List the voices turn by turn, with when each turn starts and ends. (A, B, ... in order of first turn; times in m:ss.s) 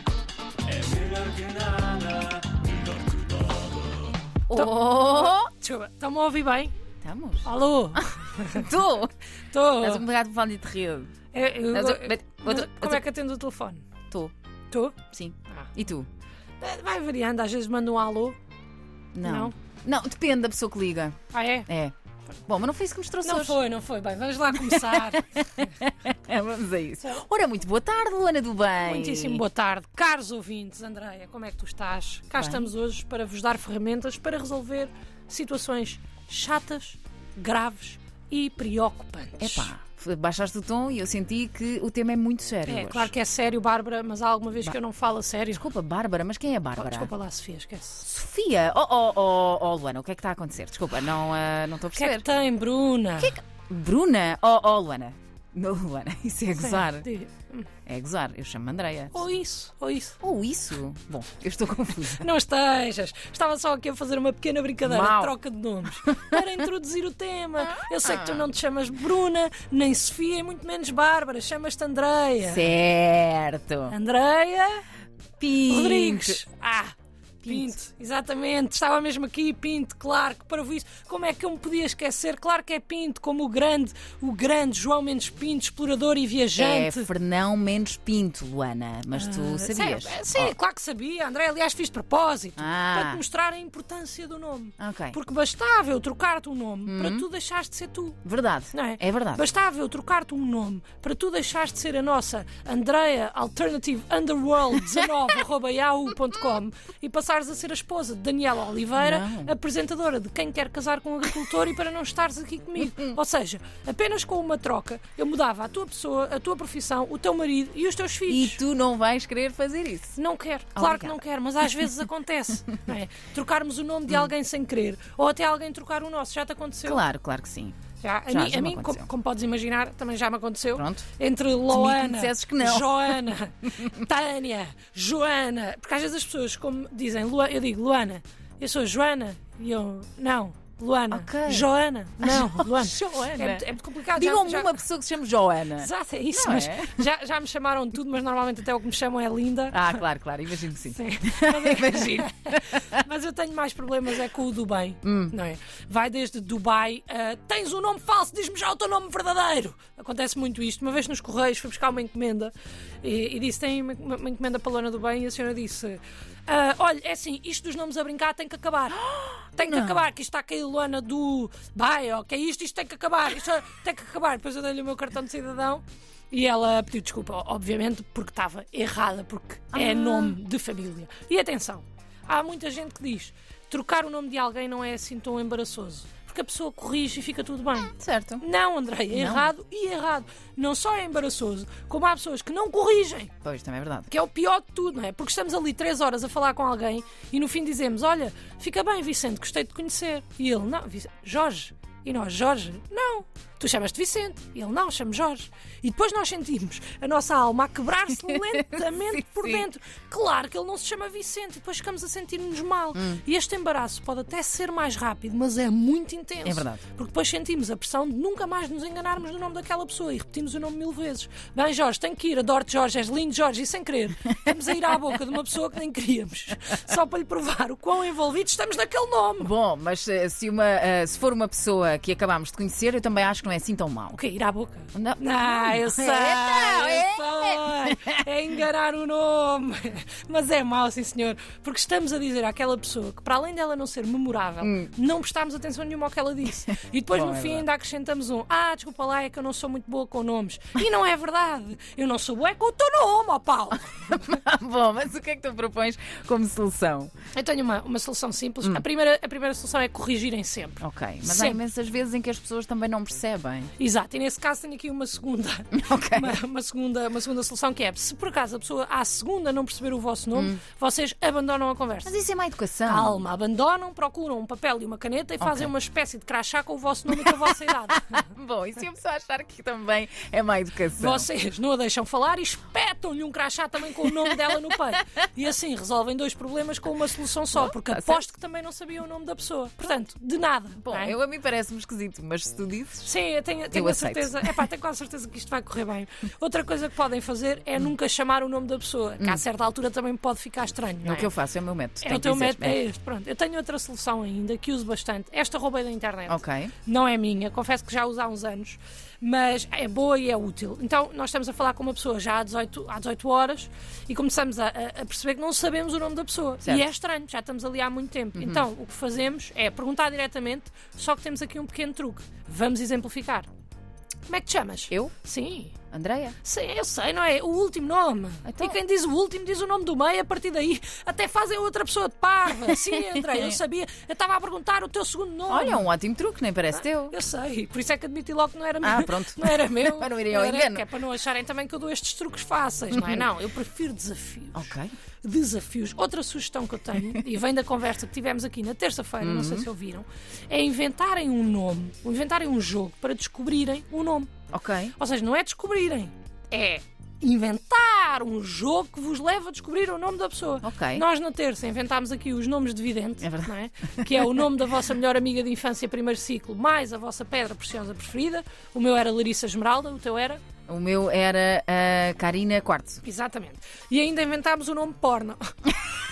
0:00.7-0:03.8 A
0:04.5-0:05.5 B
0:04.5-0:06.7 C
0:07.0-0:08.0 B
0:07.4-0:08.7 C
0:08.5-0:09.1 B
0:09.5-0:10.0 C
0:09.8-0:11.1 B
0:11.3-0:13.9 C
0:11.7-0:13.0 B
0:14.7-0:15.0 C
0:15.1-0:16.1 B
0:16.6-0:18.4 C
0:19.2-0:21.2 B
0:19.2-0:19.5 C
0:21.3-0:21.7 C
0:21.7-0:21.9 B
0:22.5-0:23.6 B
0:23.2-0:25.8 C
0:24.5-0:29.4 B
0:28.8-0:39.7 C
0:32.4-0:32.7 B
0:39.4-0:43.1 B
0:42.7-0:45.7 C
0:45.5-0:47.1 B
0:46.8-0:48.1 C
0:48.0-0:52.3 B
0:51.9-0:53.4 C
0:53.2-0:57.1 B
0:56.6-0:57.7 C
0:57.9-0:59.2 B
0:59.1-1:00.2 C
1:00.2-1:02.3 B
1:02.1-1:12.7 C
1:04.8-1:05.4 B
1:06.1-1:06.4 B
1:07.7-1:08.5 B
1:12.4-1:14.0 B
1:13.9-1:14.8 C
1:15.4-1:16.4 B
1:15.7-1:16.9 C
1:17.4-1:17.7 B
1:17.5-1:27.1 C
1:26.6-1:30.5 B
1:29.1-1:38.2 C
1:32.6-1:33.2 B
1:34.8-1:35.2 B
1:36.9-1:37.3 B
1:38.2-1:39.4 B
1:38.7-1:58.6 C
1:49.0-1:49.5 B
1:52.8-1:53.2 B
1:58.3-2:00.2 B
2:00.2-2:07.0 C
2:00.8-2:01.2 B
2:06.8-2:07.8 B
2:08.0-2:24.8 C
2:08.3-2:09.1 B
2:10.8-2:11.0 B
2:11.7-2:14.0 B
2:21.1-2:21.7 B
2:22.2-2:27.0 B
2:25.8-2:30.0 C
2:29.7-2:33.0 B
2:30.8-2:49.0 C
2:35.0-2:35.4 B
2:48.9-2:50.1 B
2:49.6-3:13.3 C
2:59.7-3:00.4 B
3:07.9-3:08.4 B
3:09.1-3:09.5 B
3:13.4-3:14.1 B
3:14.1-3:49.5 C
3:28.2-3:29.7 B
3:33.0-3:33.2 B
3:36.4-3:36.8 B
3:49.4-3:54.2 B
3:54.1-4:14.4 C
3:54.9-3:58.2 B
4:04.6-4:04.9 B
4:07.1-4:07.7 B
4:13.9-4:17.1 B
4:17.4-4:21.6 C
4:20.8-4:23.7 B
4:23.8-4:32.2 C
4:25.7-4:26.4 B
4:30.3-4:30.6 B
4:32.1-4:33.2 B
4:32.8-4:38.3 C
4:35.4-4:35.7 B
4:37.1-4:41.3 B
4:41.0-4:51.2 C
4:47.6-4:48.2 B
4:50.8-4:53.1 B
4:53.0-5:01.3 C
4:53.7-4:54.6 B
5:01.0-5:02.8 B
5:02.0-5:23.5 C
5:06.3-5:06.7 B
5:18.4-5:18.7 B
5:24.3-5:25.8 C
5:25.9-5:26.4 B
5:26.4-5:35.9 C
5:28.4-5:28.8 B
5:32.6-5:33.6 B
5:35.5-5:37.2 B
5:36.8-5:54.3 C
5:38.8-5:40.8 B
5:42.9-5:43.3 B
5:44.6-5:44.9 B
5:49.2-5:49.7 B
5:54.5-5:54.9 B
5:55.0-6:10.4 C
6:00.6-6:01.0 B
6:03.2-6:04.4 B
6:10.7-6:13.0 B
6:13.0-6:15.8 C